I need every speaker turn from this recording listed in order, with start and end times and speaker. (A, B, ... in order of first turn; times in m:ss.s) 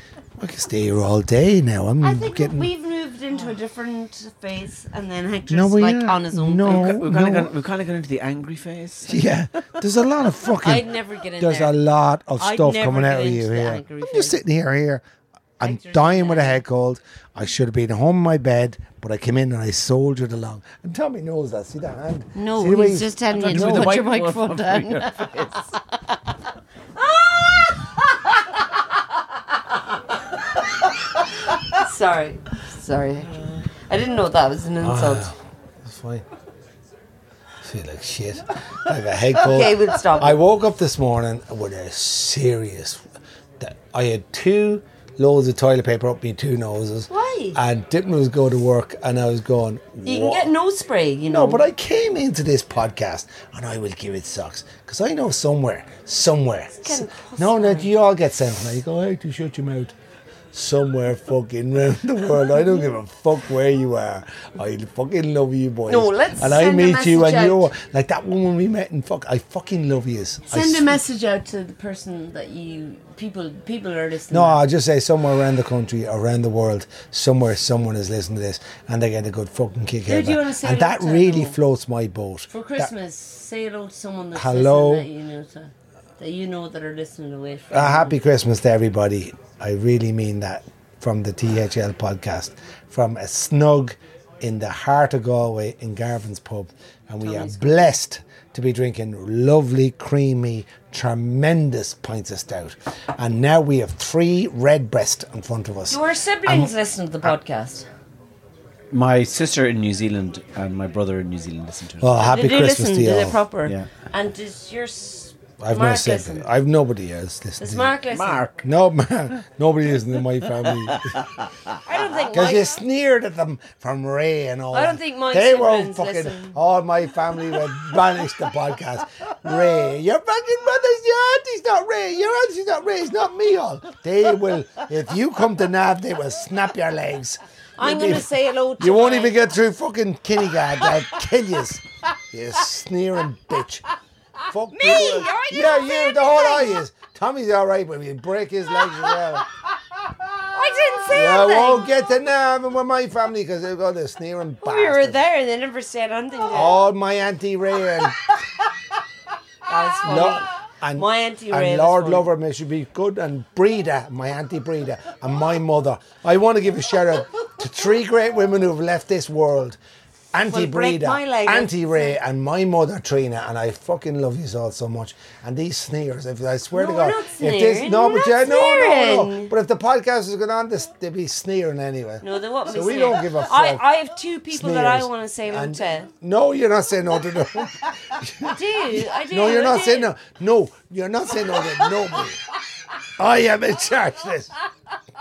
0:00.4-0:02.7 A
0:02.0-0:06.9 B
0:05.5-0:07.5 A
0:06.6-0:09.3 C
0:09.0-0:15.0 A
0:10.6-0:11.7 B
0:12.4-0:14.4 B
0:15.6-0:24.0 A
0:15.6-0:16.6 B
0:22.4-0:26.2 B
0:23.3-0:25.7 C
0:27.0-0:28.1 B
0:31.7-0:35.3 B
0:34.8-0:36.2 A
0:37.6-0:43.0 A
0:39.4-0:40.4 B
0:43.6-0:50.5 A
0:47.1-0:47.6 B
0:50.0-0:51.6 B
0:51.3-0:59.9 A
0:56.8-0:57.9 B
1:00.5-1:11.0 A
1:05.9-1:07.7 B
1:10.5-1:14.6 B
1:14.3-1:22.9 A
1:20.1-1:21.6 B
1:22.5-1:28.1 B
1:24.3-1:25.1 A
1:27.7-1:46.7 A
1:37.2-1:37.9 B
1:45.9-1:47.8 B
1:48.9-1:52.3 C
1:52.0-1:53.4 A
1:52.2-1:56.4 B
1:55.6-1:57.9 A
1:57.6-1:58.5 B
1:58.1-1:58.6 C
1:58.6-2:01.2 A
2:00.9-2:01.4 C
2:01.8-2:02.8 B
2:02.3-2:23.8 A
2:04.7-2:06.6 B
2:17.8-2:19.3 B
2:24.5-2:29.5 A
2:24.7-2:26.8 B
2:30.5-2:31.9 B
2:31.1-2:35.2 A
2:34.6-2:36.8 B
2:36.5-2:38.2 A
2:39.7-2:42.2 B
2:40.0-2:49.8 A
2:50.3-3:03.8 A
2:50.4-2:52.2 B
2:56.7-2:59.5 B
3:02.2-3:06.1 B
3:04.5-3:12.4 A
3:08.5-3:10.1 B
3:13.2-3:14.5 A